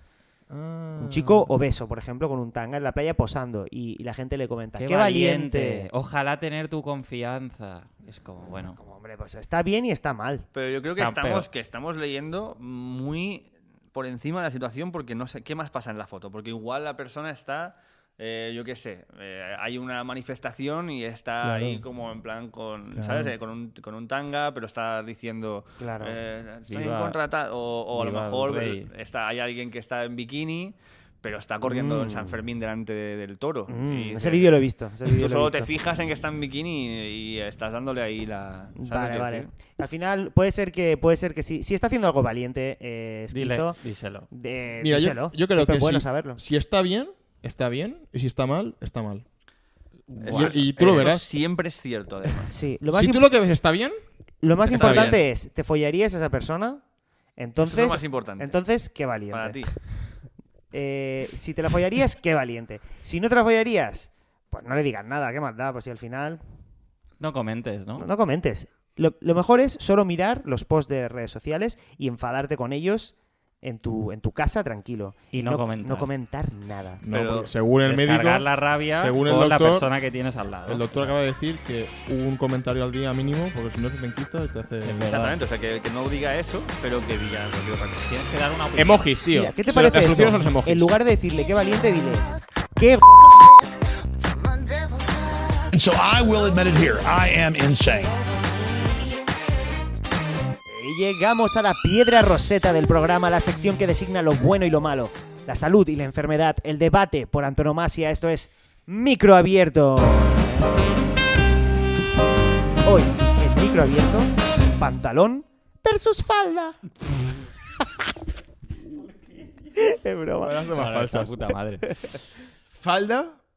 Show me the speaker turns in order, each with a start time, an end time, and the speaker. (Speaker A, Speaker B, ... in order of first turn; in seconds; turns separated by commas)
Speaker A: 0.5-1.5, Speaker B: 1.0-5.9, Speaker C: 4.8-8.8, Speaker B: 8.8-10.5, Speaker D: 10.5-39.5, Speaker C: 10.9-11.5, Speaker A: 21.4-21.8, Speaker A: 22.9-23.3, Speaker B: 25.8-26.2, Speaker C: 26.7-27.2, Speaker C: 27.9-28.9, Speaker B: 31.6-32.4, Speaker B: 33.7-35.7, Speaker B: 38.8-43.8, Speaker C: 43.3-44.3, Speaker B: 44.3-46.4, Speaker A: 44.8-49.3, Speaker C: 50.1-51.1, Speaker A: 50.2-51.3, Speaker D: 50.2-52.5, Speaker B: 52.5-53.3, Speaker A: 52.9-54.0, Speaker B: 54.4-56.8, Speaker A: 54.7-55.2, Speaker D: 54.7-55.2, Speaker B: 57.4-59.6, Speaker D: 57.6-58.6, Speaker D: 59.3-59.8, Speaker B: 60.7-66.4, Speaker C: 67.2-68.1, Speaker B: 68.0-77.0, Speaker C: 75.3-76.1, Speaker A: 77.0-79.9, Speaker D: 77.1-77.5, Speaker C: 77.8-81.1, Speaker A: 80.7-85.1, Speaker C: 84.8-85.4, Speaker D: 85.1-88.1, Speaker C: 88.1-89.2, Speaker A: 88.8-90.9, Speaker B: 89.3-93.1, Speaker E: 95.7-98.2, Speaker B: 100.7-111.0, Speaker B: 112.8-116.8, Speaker B: 119.8-120.7, Speaker A: 120.4-121.5, Speaker C: 120.7-121.9, Speaker A: 122.8-123.4